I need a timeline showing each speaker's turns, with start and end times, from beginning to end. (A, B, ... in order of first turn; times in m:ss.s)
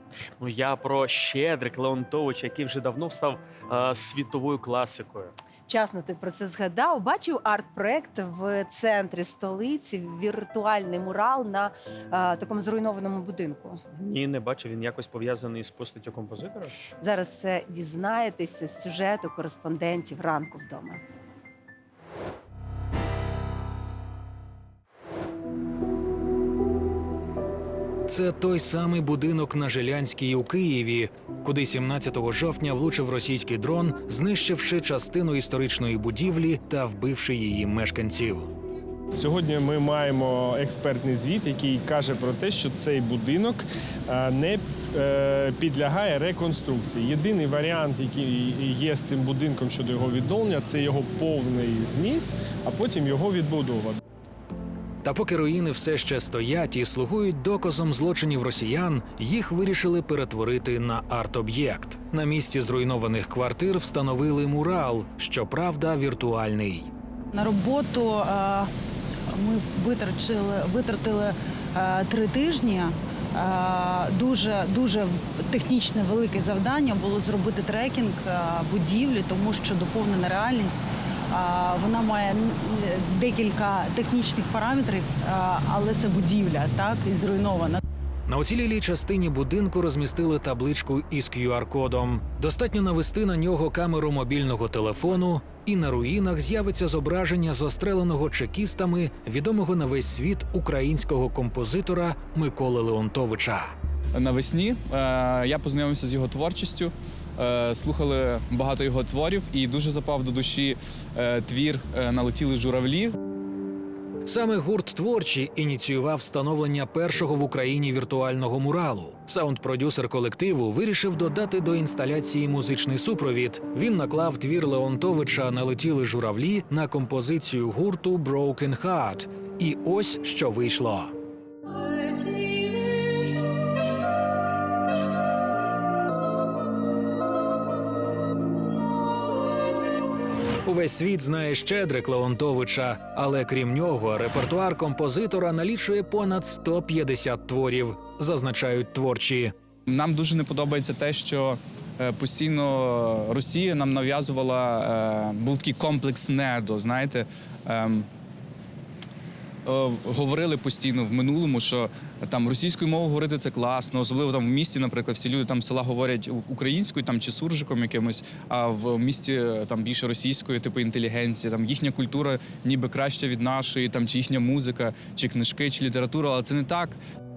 0:00.4-0:05.3 A
0:05.7-0:13.8 B
0:14.0-0:16.7 A
0:17.0-0:21.0 B
0:28.1-0:38.5 C
0:39.1-0:54.0 D
0:55.0-1:06.9 C
1:07.3-1:08.7 E
1:09.3-1:27.8 E
1:28.3-1:43.7 C
1:44.1-1:53.2 F
1:54.2-2:11.1 C
2:20.6-2:29.5 C
2:29.9-2:38.1 F
2:39.6-2:57.0 F